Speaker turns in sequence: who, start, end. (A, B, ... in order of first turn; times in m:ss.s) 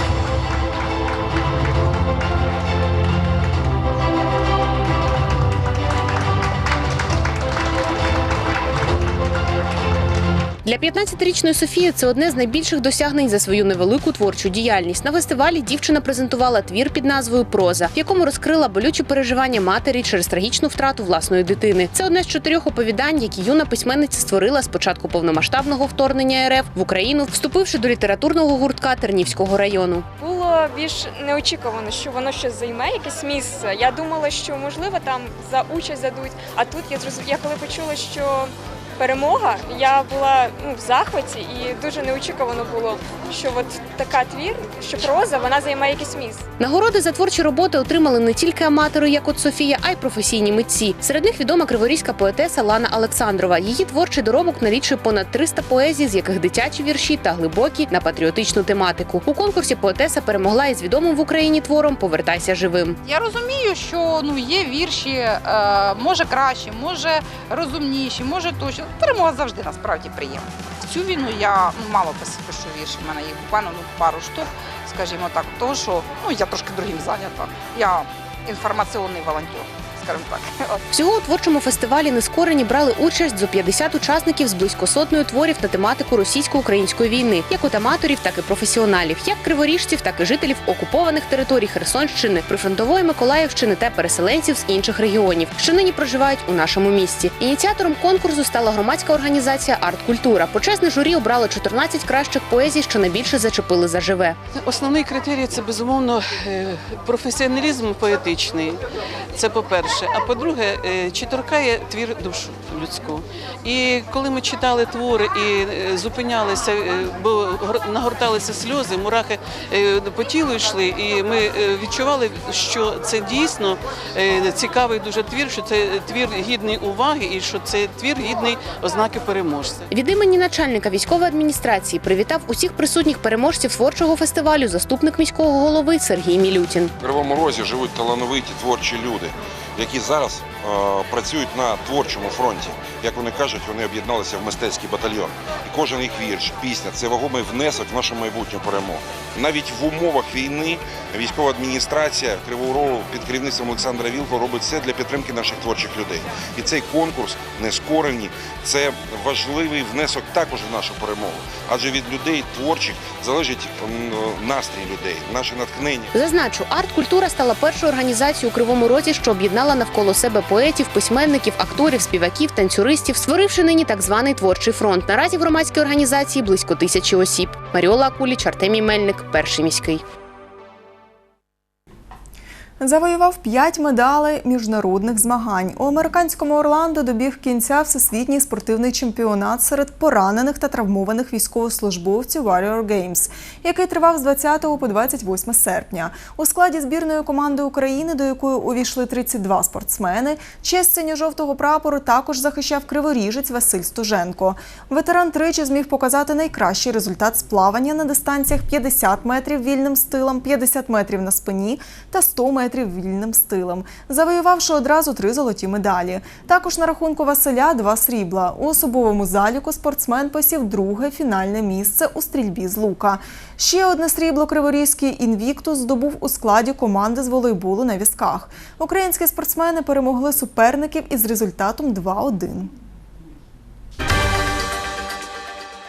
0:10.6-0:30.1 A
0:30.2-0:46.4 B
0:46.6-1:03.0 A
1:03.0-1:20.8 C
1:20.9-1:44.4 A
1:44.6-1:48.8 D
1:49.4-2:09.8 D
2:09.9-2:16.9 A
2:17.0-2:46.1 E
2:46.1-3:00.0 A
3:02.8-3:52.7 F